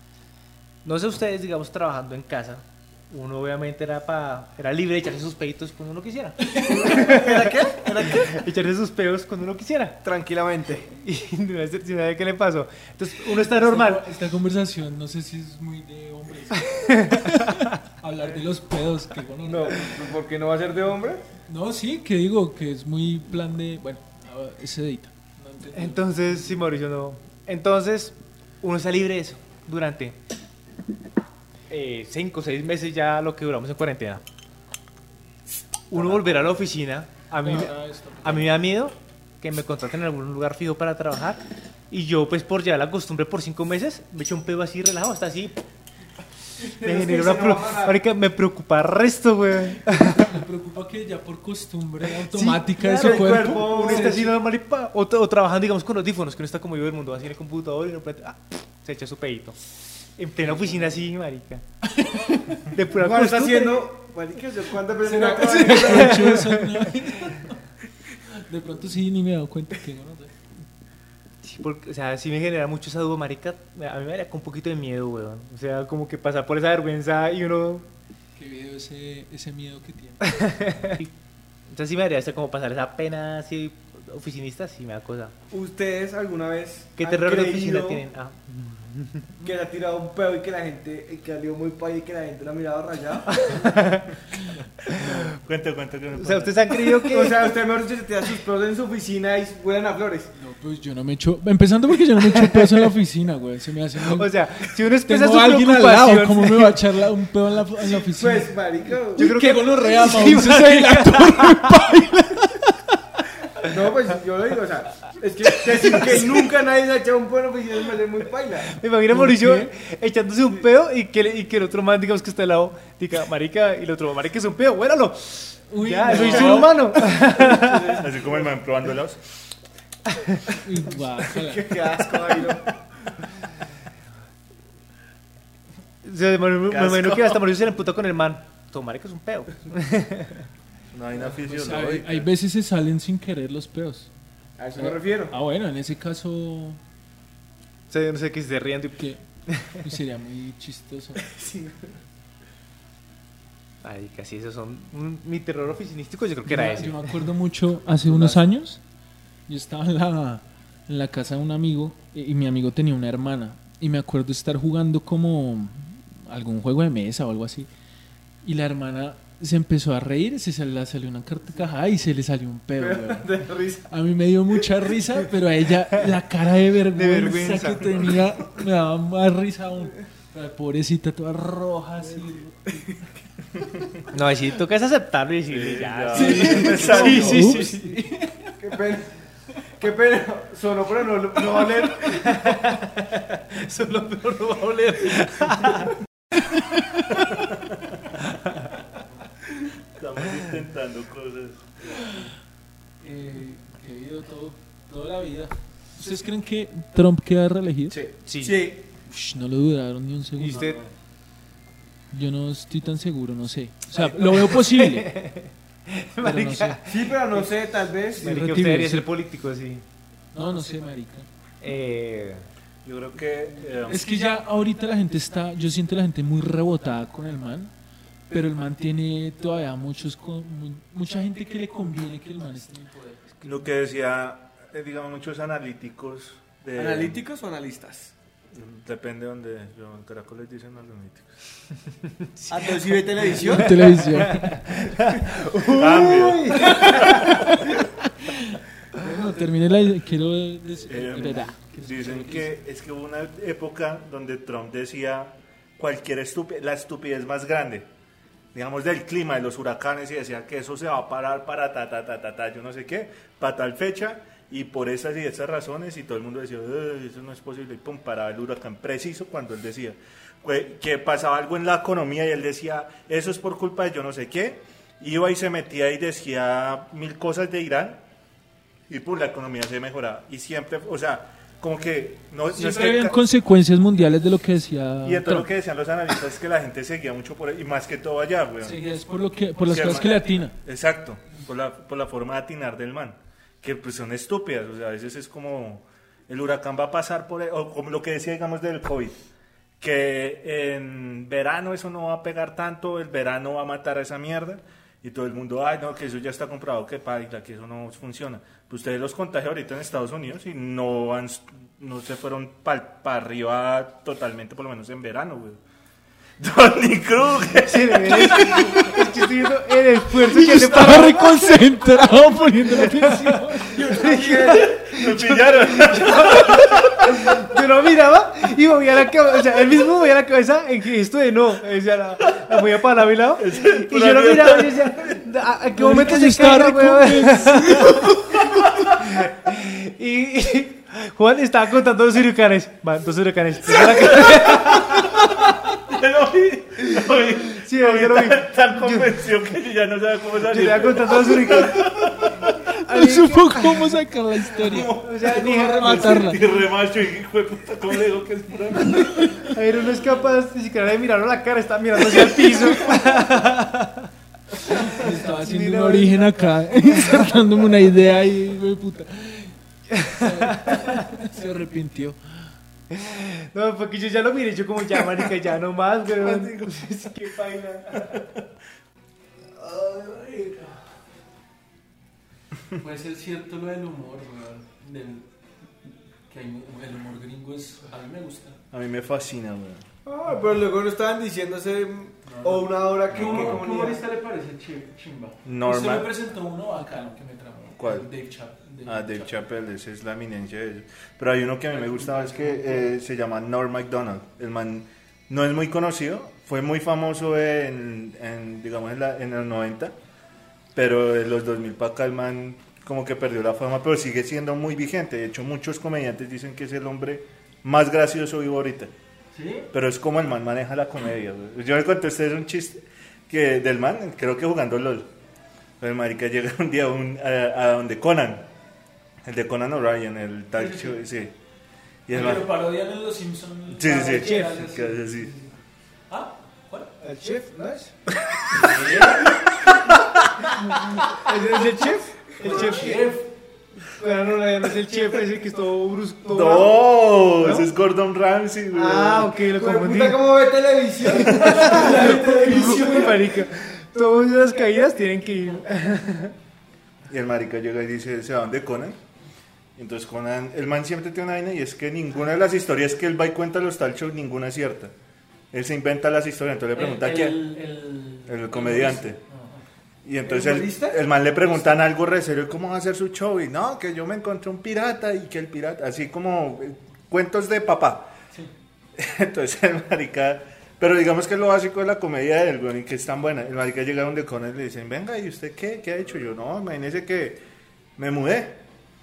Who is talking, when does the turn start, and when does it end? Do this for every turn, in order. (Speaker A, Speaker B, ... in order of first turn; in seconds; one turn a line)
Speaker A: 0.8-10.0
Speaker B: 6.4-7.2
Speaker C: 6.6-8.4
Speaker C: 10.0-10.9
Speaker A: 10.9-14.0
Speaker B: 13.5-20.0
Speaker A: 16.8-17.7
Speaker C: 19.4-21.2
Speaker B: 21.5-26.6
Speaker A: 25.7-30.2
Speaker A: 31.7-34.2
Speaker A: 35.9-45.6
Speaker B: 37.4-38.6
Speaker C: 46.6-48.0
Speaker A: 46.8-50.3
Speaker B: 50.1-54.3
Speaker A: 52.3-61.6
Speaker C: 52.8-54.3
Speaker B: 60.4-61.0
Speaker B: 62.0-62.5
Speaker A: 62.3-63.9
Speaker C: 63.0-66.5
Speaker B: 65.0-67.6
Speaker A: 65.5-66.7
Speaker B: 68.3-70.3
Speaker A: 71.4-77.9
Speaker B: 78.4-80.6
Speaker A: 80.3-81.1
Speaker A: 81.7-85.3
Speaker C: 85.5-88.0
Speaker A: 87.0-89.3
Speaker C: 89.4-93.5
Speaker A: 93.3-94.4
Speaker D: 94.9-96.6
Speaker A: 96.2-97.5
Speaker C: 96.8-100.3
Speaker B: 100.4-112.8
Speaker A: 102.3-102.9
Speaker A: 104.0-106.8
Speaker C: 107.8-109.4
Speaker A: 109.2-112.0
Speaker C: 113.6-118.7
Speaker A: 115.5-116.1
Speaker A: 118.6-127.9
Speaker B: 119.1-119.7
Speaker B: 125.7-127.2
Speaker C: 126.1-126.6
Speaker C: 127.2-128.5
Speaker D: 128.0-129.2
Speaker A: 130.1-130.5
Speaker B: 130.6-131.7
Speaker C: 131.1-132.8
Speaker A: 136.0-140.3
Speaker D: 136.7-137.4
Speaker D: 140.9-142.3
Speaker B: 141.2-144.1
Speaker C: 144.6-145.4
Speaker B: 144.8-146.8
Speaker A: 147.9-149.7
Speaker B: 148.9-151.3
Speaker C: 151.2-151.9
Speaker A: 153.8-157.2
Speaker B: 156.4-158.8
Speaker A: 158.0-158.4
Speaker B: 159.5-167.7
Speaker B: 168.4-182.9
Speaker C: 172.8-173.9
Speaker A: 176.9-178.2
Speaker A: 184.1-188.1
Speaker D: 185.5-187.6
Speaker B: 186.1-188.5
Speaker C: 186.2-187.3
Speaker C: 188.6-189.1
Speaker C: 189.8-192.5
Speaker A: 191.6-195.9
Speaker D: 199.9-201.9
Speaker B: 203.0-208.0
Speaker C: 207.9-208.9
Speaker A: 208.2-208.6
Speaker B: 209.0-210.8
Speaker A: 210.4-210.8
Speaker B: 212.1-215.1
Speaker A: 214.0-217.5
Speaker B: 216.2-216.8
Speaker C: 216.9-218.4
Speaker B: 218.2-219.1
Speaker A: 218.2-219.8
Speaker B: 220.3-221.3
Speaker A: 221.6-222.5
Speaker D: 222.8-224.1
Speaker B: 223.8-227.7
Speaker B: 228.3-233.2
Speaker D: 233.4-237.2
Speaker C: 236.8-238.1
Speaker D: 238.5-241.3
Speaker A: 242.3-242.8
Speaker C: 242.5-243.9
Speaker B: 243.2-244.9
Speaker A: 243.5-247.8
Speaker D: 245.7-247.2
Speaker B: 246.6-247.7
Speaker B: 248.3-252.5
Speaker D: 250.9-257.9
Speaker D: 258.5-278.0
Speaker D: 278.9-283.2
Speaker B: 282.5-285.5
Speaker D: 285.0-288.8
Speaker B: 288.6-290.6
Speaker D: 289.6-299.2
Speaker D: 299.8-315.6
Speaker D: 316.4-319.0
Speaker A: 317.6-345.7
Speaker B: 318.4-318.8
Speaker B: 320.2-324.1
Speaker C: 323.8-324.7
Speaker D: 324.4-326.6
Speaker D: 333.4-335.2
Speaker B: 335.8-338.1
Speaker D: 343.9-352.5
Speaker A: 347.5-349.3
Speaker A: 350.4-354.0
Speaker B: 352.8-356.6
Speaker D: 354.6-359.2
Speaker A: 355.0-356.4
Speaker B: 358.9-359.5
Speaker A: 359.4-364.1
Speaker B: 362.5-363.0
Speaker B: 364.6-372.2
Speaker A: 364.6-366.3
Speaker A: 370.5-371.0
Speaker A: 372.9-378.2
Speaker D: 376.3-376.8
Speaker C: 377.3-377.7
Speaker C: 379.7-380.4
Speaker B: 382.8-385.3
Speaker B: 386.3-388.6
Speaker D: 388.7-389.9
Speaker C: 390.1-394.0
Speaker B: 392.3-399.5
Speaker D: 393.1-393.6
Speaker D: 395.4-396.1
Speaker D: 397.8-398.1
Speaker D: 398.9-409.9
Speaker B: 401.7-402.9
Speaker D: 410.7-418.9
Speaker B: 419.4-419.7
Speaker D: 419.7-425.1
Speaker D: 425.8-428.5
Speaker D: 429.3-431.4
Speaker B: 430.6-431.0
Speaker D: 432.1-432.5
Speaker B: 432.1-435.5
Speaker D: 433.7-435.3
Speaker A: 434.0-434.7
Speaker B: 436.1-436.9
Speaker A: 437.0-437.6
Speaker C: 437.2-437.9
Speaker B: 438.5-439.7
Speaker B: 440.6-441.2
Speaker A: 440.8-443.0
Speaker C: 441.4-443.1
Speaker B: 442.4-443.3
Speaker A: 443.8-447.7
Speaker D: 446.3-449.2
Speaker C: 448.7-453.3
Speaker A: 448.8-450.2
Speaker A: 451.1-456.3
Speaker D: 451.2-451.6
Speaker B: 451.6-453.2
Speaker D: 457.1-459.0
Speaker D: 459.8-464.9
Speaker D: 465.5-467.4
Speaker B: 466.7-469.6
Speaker D: 468.3-469.2
Speaker D: 470.1-478.1
Speaker C: 470.2-471.0
Speaker D: 479.0-487.4
Speaker D: 488.0-488.6